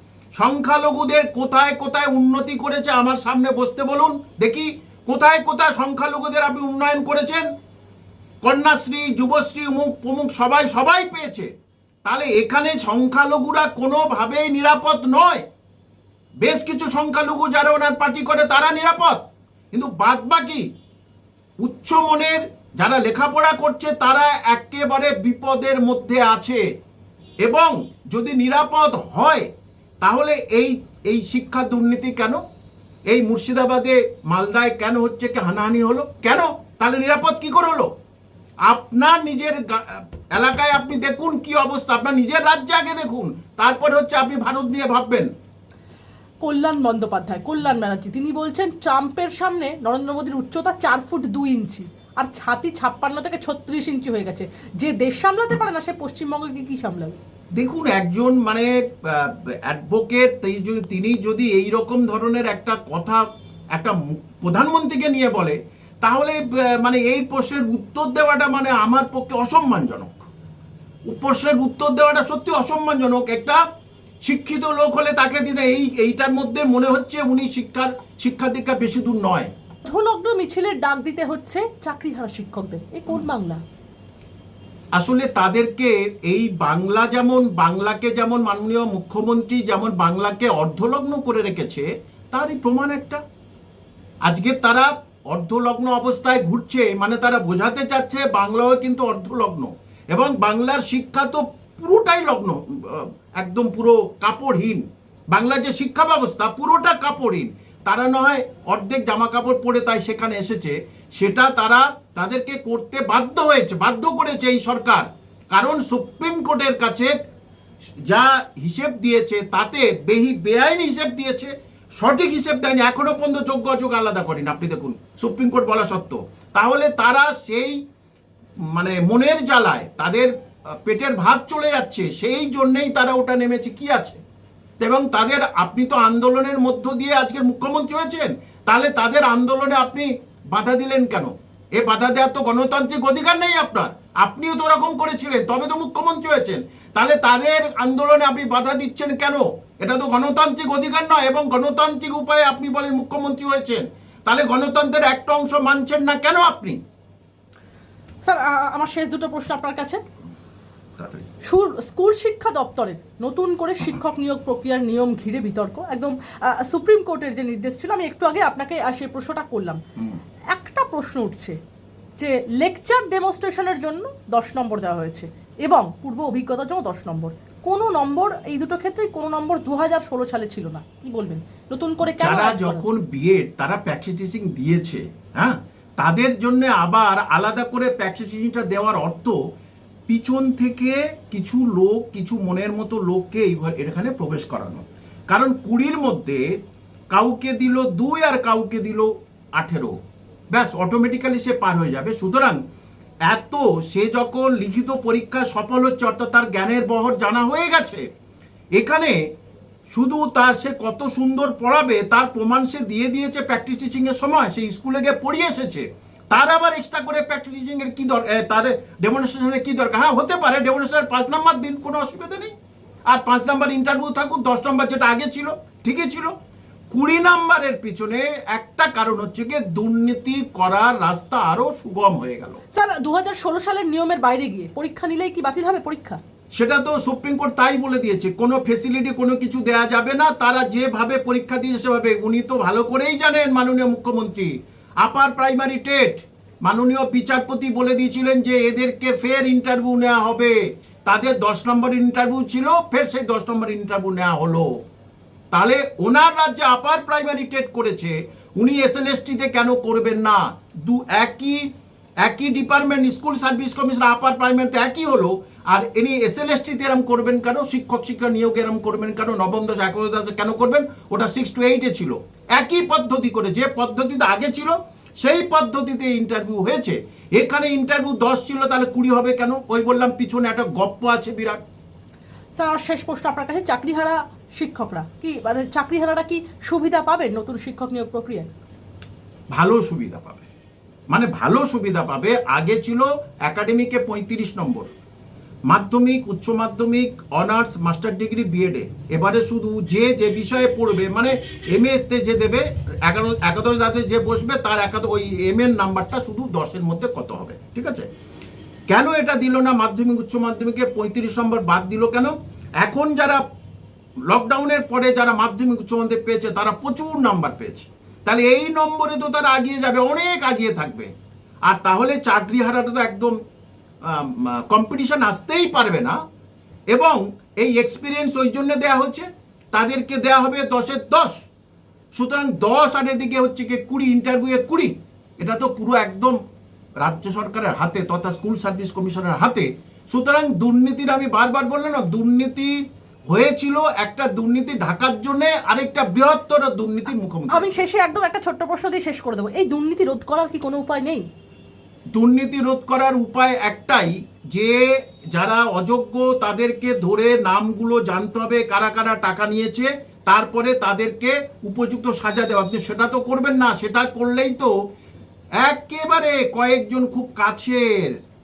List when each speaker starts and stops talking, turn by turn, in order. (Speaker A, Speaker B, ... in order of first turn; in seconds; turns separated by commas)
Speaker A: 0.4-7.5, Speaker A: 8.4-11.5, Speaker A: 12.1-15.4, Speaker A: 16.4-19.2, Speaker A: 19.7-20.7, Speaker A: 21.6-26.6, Speaker A: 27.4-29.5, Speaker A: 30.0-32.4, Speaker A: 33.1-37.9, Speaker A: 38.7-45.3, Speaker B: 46.4-57.2, Speaker A: 57.6-63.2, Speaker A: 63.8-70.3, Speaker A: 71.1-73.6, Speaker A: 74.2-79.5, Speaker B: 79.9-83.6, Speaker A: 85.0-93.2, Speaker A: 94.3-117.1, Speaker A: 118.1-127.8, Speaker A: 128.8-130.3, Speaker A: 130.8-134.2, Speaker A: 134.8-156.8, Speaker B: 158.2-160.0, Speaker A: 161.0-161.2, Speaker B: 161.4-169.8, Speaker B: 170.5-171.6, Speaker B: 172.2-182.9, Speaker A: 182.1-189.4, Speaker A: 190.1-196.4, Speaker A: 197.1-200.0, Speaker A: 200.5-202.6, Speaker A: 203.3-208.1, Speaker A: 208.8-209.2, Speaker A: 209.9-222.5, Speaker A: 223.1-226.3, Speaker A: 226.9-232.6, Speaker B: 232.7-236.2, Speaker A: 236.6-244.5, Speaker A: 245.0-254.7, Speaker A: 255.5-261.7, Speaker A: 262.2-281.6, Speaker B: 282.6-288.5, Speaker A: 289.5-290.4, Speaker A: 291.1-294.9, Speaker A: 295.7-308.1, Speaker A: 308.9-313.4, Speaker A: 314.3-321.1, Speaker A: 321.7-323.4, Speaker A: 324.1-326.2, Speaker A: 326.9-331.4, Speaker A: 332.2-336.4, Speaker A: 337.0-342.8, Speaker A: 343.3-347.8, Speaker B: 347.5-351.3, Speaker A: 352.1-364.7, Speaker A: 365.6-368.2